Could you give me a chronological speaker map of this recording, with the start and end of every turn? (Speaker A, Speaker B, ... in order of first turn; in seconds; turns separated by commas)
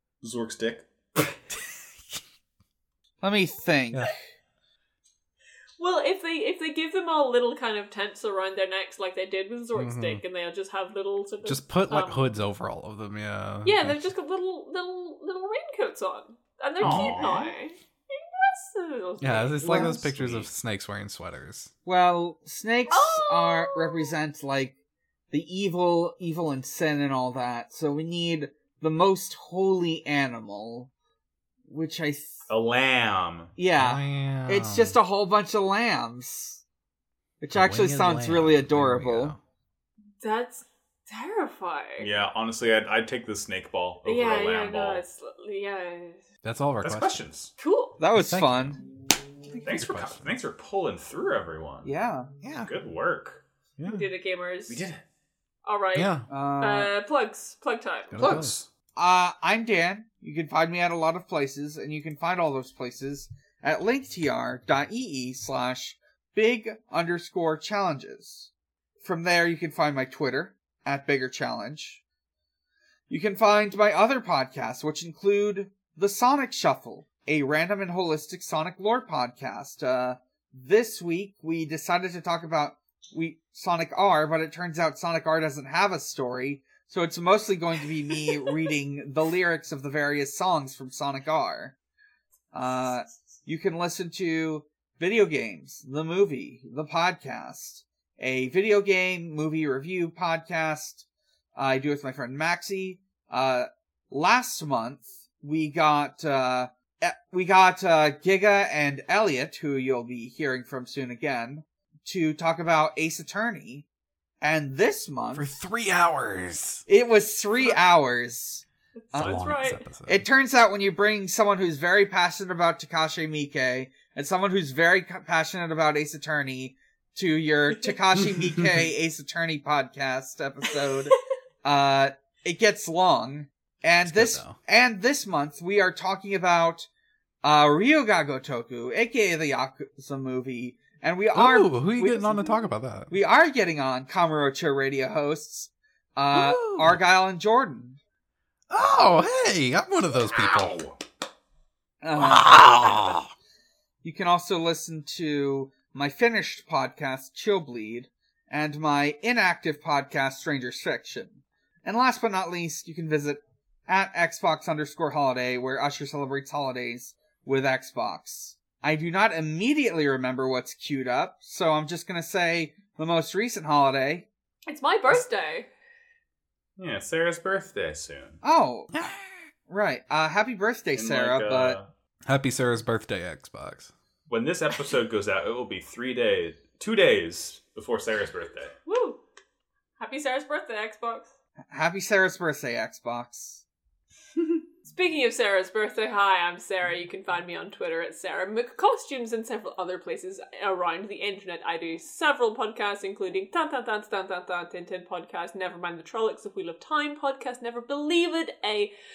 Speaker A: 0.2-1.4, Speaker B: 3.2-4.1, Speaker C: 5.8-12.3, Speaker D: 9.8-10.2, Speaker D: 11.4-14.1, Speaker C: 13.7-20.0, Speaker A: 16.8-17.5, Speaker D: 16.8-17.3, Speaker D: 19.2-21.7, Speaker B: 19.7-20.0, Speaker A: 20.0-20.5, Speaker B: 21.9-24.8, Speaker C: 22.9-24.1, Speaker B: 25.3-30.9, Speaker B: 31.7-32.4, Speaker A: 32.5-33.5, Speaker B: 33.6-36.6, Speaker D: 33.8-35.0, Speaker B: 37.4-39.3, Speaker D: 37.5-39.4, Speaker C: 40.2-42.1, Speaker A: 42.0-45.0, Speaker C: 44.0-46.2, Speaker D: 46.4-47.2, Speaker A: 46.8-47.5, Speaker C: 47.6-48.0, Speaker B: 48.0-48.8, Speaker D: 48.1-48.8, Speaker D: 49.6-50.3, Speaker A: 49.6-51.9, Speaker B: 51.9-52.3, Speaker D: 52.4-52.7, Speaker A: 52.5-53.4, Speaker D: 53.8-54.1, Speaker C: 53.9-54.9, Speaker A: 54.7-55.0, Speaker C: 55.6-58.3, Speaker D: 56.0-56.3, Speaker B: 56.3-56.9, Speaker D: 58.1-58.5, Speaker A: 58.2-58.7, Speaker B: 59.0-68.5, Speaker B: 69.0-72.0, Speaker B: 73.1-91.8, Speaker B: 92.5-101.0, Speaker B: 101.6-113.8, Speaker B: 114.4-115.5, Speaker D: 115.3-116.8, Speaker B: 116.9-119.4, Speaker C: 119.1-119.8, Speaker D: 119.2-120.3, Speaker B: 120.1-136.9, Speaker D: 128.2-128.9, Speaker D: 134.0-134.6, Speaker B: 137.4-148.0, Speaker D: 141.3-143.1, Speaker D: 146.3-147.0, Speaker D: 148.7-150.9, Speaker B: 152.0-152.6, Speaker D: 152.1-153.3, Speaker B: 154.0-174.3, Speaker C: 174.7-175.7, Speaker A: 176.8-178.4, Speaker B: 178.4-178.9, Speaker B: 179.7-181.8, Speaker A: 180.9-181.9, Speaker D: 182.3-183.9, Speaker A: 184.3-188.7, Speaker C: 188.9-189.2, Speaker C: 190.0-191.3, Speaker B: 191.7-193.6, Speaker C: 194.9-208.9